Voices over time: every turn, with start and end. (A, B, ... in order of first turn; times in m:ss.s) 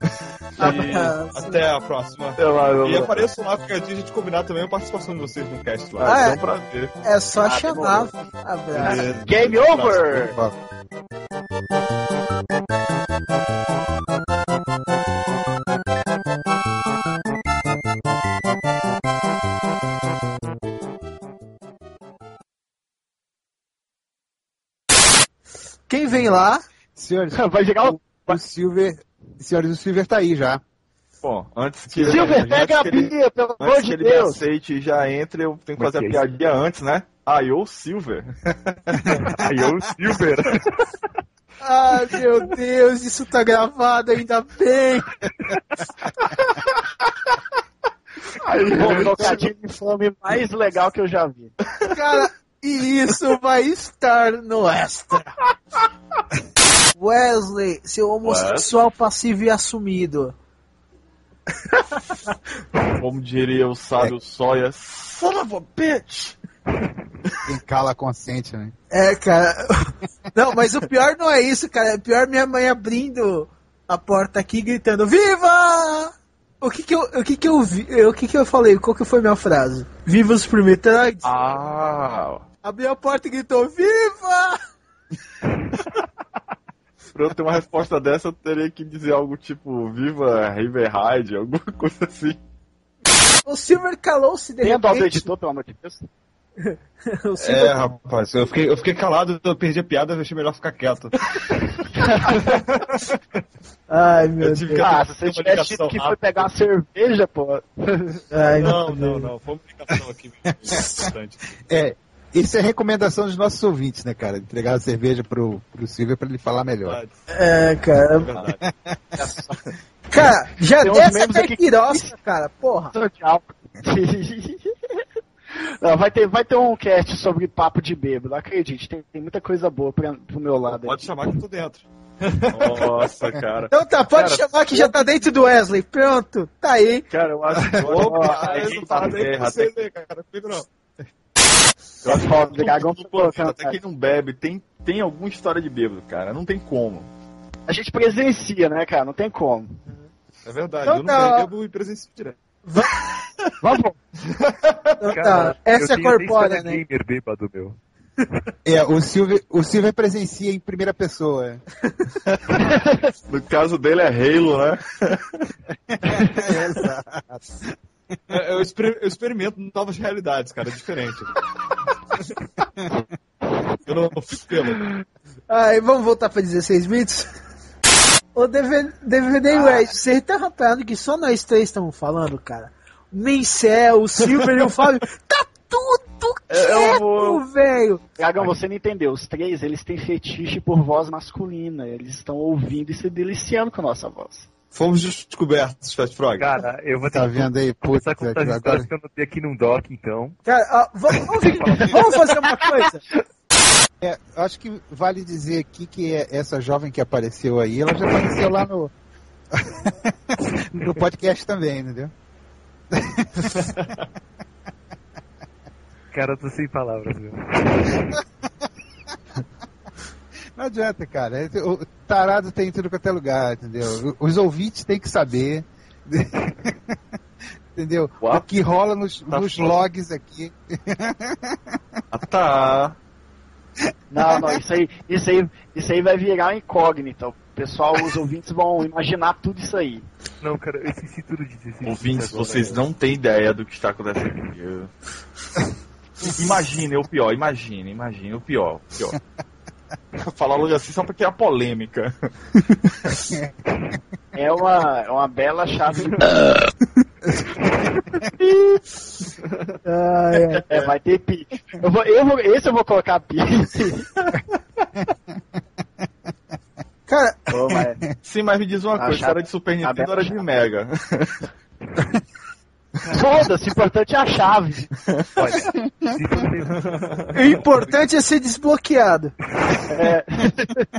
0:00.6-0:01.6 A
0:00.6-0:01.1 B
0:00.6-0:06.2 C
0:02.4-0:03.3 B
0:06.0-0:06.9 B
0:06.0-0:06.4 A
0:07.0-0:09.0 A
0:07.4-0:08.1 D
0:08.8-0:10.4 D
0:08.8-0:10.4 C
0:25.9-0:26.6 A
0:27.0-0:30.6 E
0:27.3-0:28.4 D
0:31.2-0:38.3 B
0:32.0-0:34.4 D
0:35.8-0:36.2 F
0:39.0-0:40.9 F
0:41.6-0:45.3 A
0:48.5-0:49.5 B
0:48.6-0:51.6 D
0:48.9-0:49.1 C
0:51.9-0:55.4 A
0:57.0-1:00.3 A
0:58.2-0:58.7 B
1:02.8-1:06.4 B
1:07.4-1:08.7 E
1:08.9-1:21.3 A
1:21.2-1:22.4 B
1:22.6-1:24.6 A
1:27.1-1:32.4 B
1:33.4-1:35.3 A
1:34.6-1:36.1 D
1:36.6-1:37.9 A
1:37.4-1:41.4 C
1:42.0-1:42.3 D
1:42.5-1:43.0 C
1:43.9-1:44.9 A
1:44.4-1:46.4 C
1:44.8-1:48.2 D
1:48.3-1:49.3 A
1:48.5-1:51.4 C
1:50.6-1:51.0 B
1:50.6-1:51.1 E
1:51.7-1:57.0 E
1:57.3-1:58.3 A
1:58.5-1:58.9 E
1:59.2-1:59.5 D
2:00.1-2:02.9 A
2:00.8-2:02.1 D
2:02.9-2:05.0 D
2:05.6-2:11.1 D
2:10.8-2:11.8 C
2:12.4-2:13.1 C
2:12.5-2:14.9 B
2:13.7-2:17.1 A
2:17.1-2:19.8 B
2:17.5-2:20.7 C
2:17.8-2:19.2 D
2:22.0-2:23.8 D
2:22.1-2:27.1 B
2:27.7-2:29.8 D
2:30.4-2:32.4 C
2:30.8-2:31.5 A
2:32.7-2:33.0 A
2:33.6-2:34.0 D
2:34.5-2:34.9 C
2:35.0-2:36.8 A
2:35.1-2:37.8 F
2:38.6-2:41.6 E
2:42.6-2:43.1 D
2:43.3-2:45.5 B
2:46.0-2:47.6 E
2:48.3-2:51.3 C
2:53.9-2:54.8 C
2:55.5-2:57.3 A
2:58.4-3:08.0 A
2:59.5-2:59.9 D
3:06.6-3:07.4 D
3:08.2-3:14.5 D
3:14.7-3:16.6 C
3:16.4-3:20.4 F
3:17.0-3:18.9 E
3:20.5-3:23.0 A
3:21.5-3:22.0 F
3:24.0-3:28.9 E
3:29.6-3:32.1 E
3:32.9-3:33.7 E
3:36.1-3:38.1 F
3:40.6-3:47.0 E
3:47.8-3:51.8 E
3:48.2-3:48.5 B
3:49.3-3:49.8 B
3:52.1-3:53.0 B
3:54.1-4:00.0 D
4:00.4-4:02.8 F
4:01.8-4:04.9 B
4:06.2-4:09.2 B
4:10.2-4:12.2 B
4:14.4-4:16.3 D
4:17.3-4:17.6 E
4:19.8-4:20.7 A
4:20.7-4:24.1 D
4:27.1-4:27.5 A
4:27.5-4:28.0 D
4:28.2-4:31.4 B
4:29.0-4:30.4 D
4:33.1-4:35.0 D
4:35.4-4:38.0 F
4:37.3-4:39.3 A
4:39.6-4:39.9 F
4:39.9-4:40.8 D